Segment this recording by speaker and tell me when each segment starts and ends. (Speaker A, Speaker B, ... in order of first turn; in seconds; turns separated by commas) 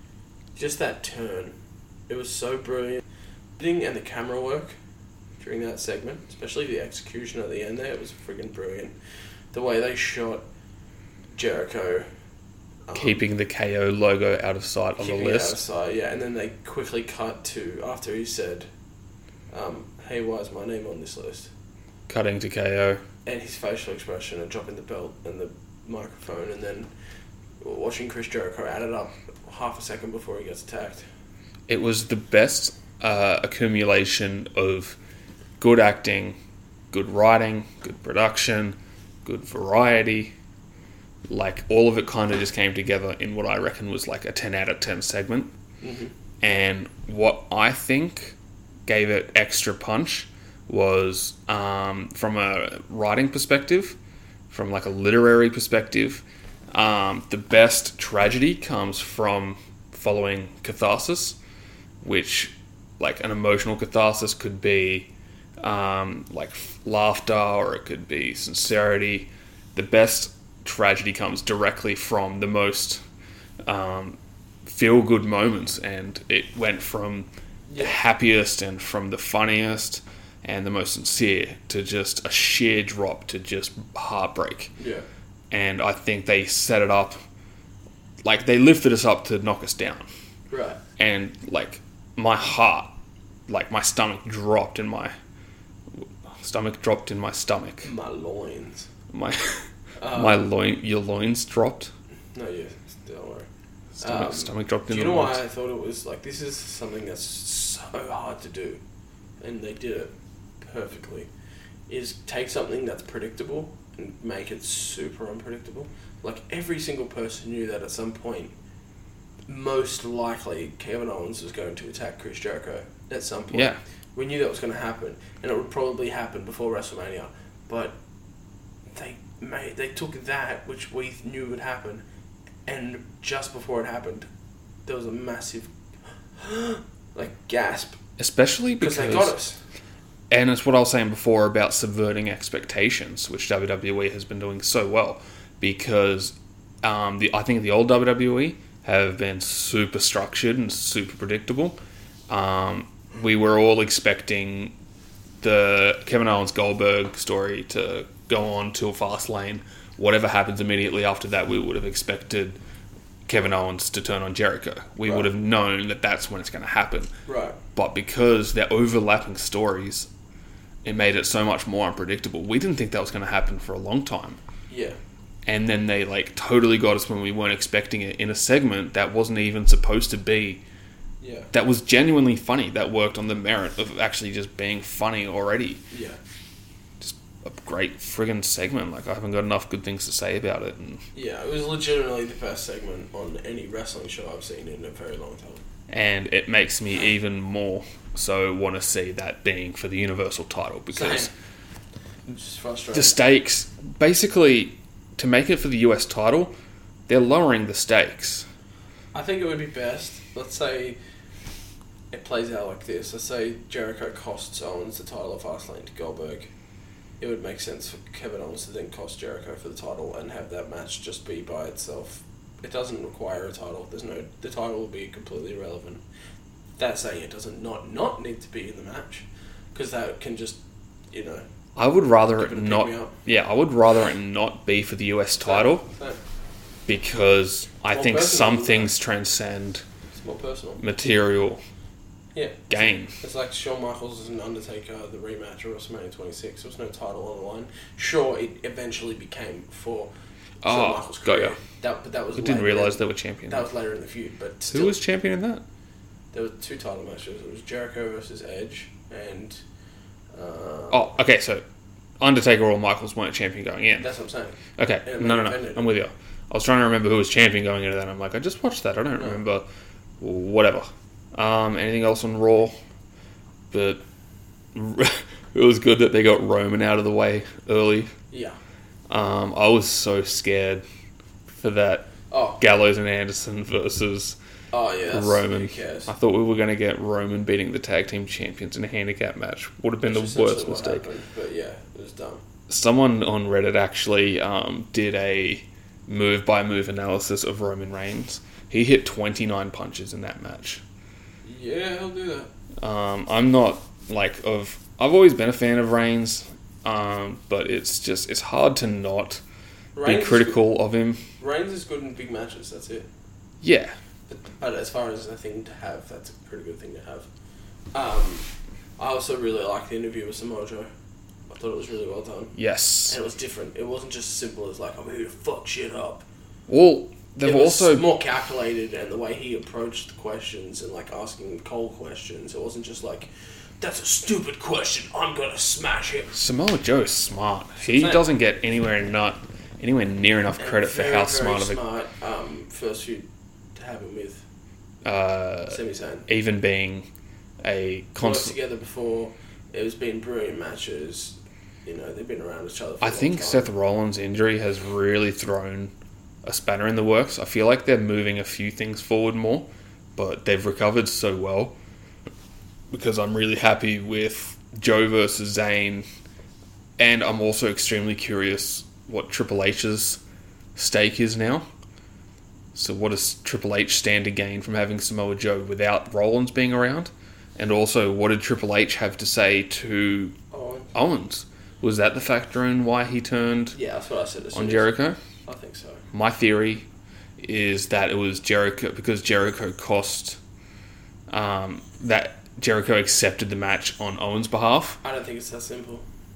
Speaker A: 0.6-1.5, Speaker A: 2.1-3.0, Speaker A: 3.6-4.8, Speaker A: 5.4-8.9, Speaker A: 9.5-10.4, Speaker A: 11.3-12.1, Speaker A: 12.9-13.2, Speaker B: 12.9-15.6, Speaker A: 15.0-18.7, Speaker A: 19.5-21.5, Speaker B: 22.1-23.0, Speaker A: 23.2-26.9, Speaker A: 27.6-31.1, Speaker B: 31.7-35.0, Speaker B: 35.6-36.4, Speaker B: 36.9-40.3, Speaker B: 41.3-45.5, Speaker A: 45.8-46.1, Speaker B: 46.4-48.4, Speaker B: 48.9-54.0, Speaker B: 54.5-61.4, Speaker B: 62.0-65.1, Speaker B: 65.6-73.0, Speaker B: 73.7-84.7, Speaker A: 77.7-78.0, Speaker A: 84.8-85.0, Speaker B: 85.5-87.2, Speaker B: 88.2-90.1, Speaker A: 90.5-90.8, Speaker B: 91.0-92.9, Speaker B: 93.5-95.1, Speaker B: 96.0-97.9, Speaker A: 97.8-98.9, Speaker B: 99.1-101.9, Speaker A: 100.0-100.4, Speaker A: 102.3-103.5, Speaker B: 104.0-105.4, Speaker A: 104.0-108.8, Speaker A: 109.4-110.1, Speaker A: 110.6-111.3, Speaker A: 111.9-118.5, Speaker A: 119.5-128.0, Speaker B: 123.5-123.8, Speaker A: 128.9-132.0, Speaker A: 132.7-134.3, Speaker A: 134.9-135.7, Speaker A: 136.4-138.0, Speaker B: 138.2-139.4, Speaker A: 138.8-139.6, Speaker B: 140.3-151.8, Speaker B: 152.3-154.7, Speaker B: 155.4-162.6, Speaker B: 163.3-167.1, Speaker A: 167.3-167.6, Speaker B: 167.8-170.1, Speaker B: 170.8-174.4, Speaker A: 174.7-175.0, Speaker B: 175.5-180.6, Speaker A: 181.2-181.5, Speaker B: 181.5-185.8, Speaker A: 185.9-186.2, Speaker B: 187.0-191.0, Speaker A: 191.1-195.6, Speaker B: 195.9-201.3, Speaker A: 200.9-201.3, Speaker A: 202.3-203.2, Speaker B: 202.9-206.5, Speaker B: 207.1-208.5, Speaker A: 209.1-211.0, Speaker A: 212.1-216.5, Speaker A: 217.2-226.0, Speaker A: 226.8-230.6, Speaker A: 231.1-231.4, Speaker B: 231.8-235.9, Speaker A: 232.4-233.1, Speaker A: 235.4-236.2, Speaker B: 236.9-239.8, Speaker A: 237.9-238.9, Speaker A: 240.1-240.8, Speaker B: 240.8-241.6, Speaker A: 242.3-250.1, Speaker B: 242.7-243.2, Speaker B: 250.6-251.6, Speaker A: 250.6-255.0, Speaker B: 252.4-253.7, Speaker B: 254.7-255.6, Speaker A: 256.3-259.6, Speaker A: 260.3-261.1, Speaker B: 260.9-261.6, Speaker B: 262.2-264.1, Speaker A: 264.0-265.9, Speaker B: 264.8-269.7, Speaker A: 269.2-269.4, Speaker B: 270.2-272.8, Speaker B: 273.7-274.0, Speaker B: 274.8-278.1, Speaker A: 278.3-278.6, Speaker B: 279.1-280.9, Speaker B: 281.5-284.4, Speaker A: 282.3-282.6, Speaker A: 284.7-286.1, Speaker B: 285.1-291.1, Speaker A: 290.0-292.4, Speaker B: 292.7-300.8, Speaker A: 301.4-302.5, Speaker B: 302.8-309.4, Speaker A: 309.9-310.6, Speaker B: 310.1-311.2, Speaker A: 311.4-313.1, Speaker B: 313.6-313.9, Speaker A: 314.3-317.3, Speaker A: 317.9-318.5, Speaker A: 319.0-320.9, Speaker A: 321.5-322.6, Speaker B: 322.6-323.2, Speaker A: 323.1-326.2, Speaker B: 326.7-328.1, Speaker A: 327.4-333.3, Speaker A: 333.8-336.4, Speaker B: 336.3-341.8, Speaker A: 337.9-338.2, Speaker A: 340.6-344.4, Speaker B: 345.0-347.1, Speaker A: 345.7-346.3, Speaker B: 347.6-348.6, Speaker A: 348.2-353.7, Speaker B: 353.0-355.9, Speaker B: 356.4-361.8, Speaker B: 362.9-366.1, Speaker B: 367.0-370.2, Speaker B: 370.8-371.7, Speaker B: 372.8-380.4, Speaker A: 380.5-380.9, Speaker B: 380.9-383.8, Speaker A: 383.7-384.9, Speaker B: 384.5-385.2, Speaker A: 385.5-386.0, Speaker B: 386.1-386.9, Speaker B: 387.4-390.4, Speaker B: 391.3-395.0, Speaker A: 395.0-396.0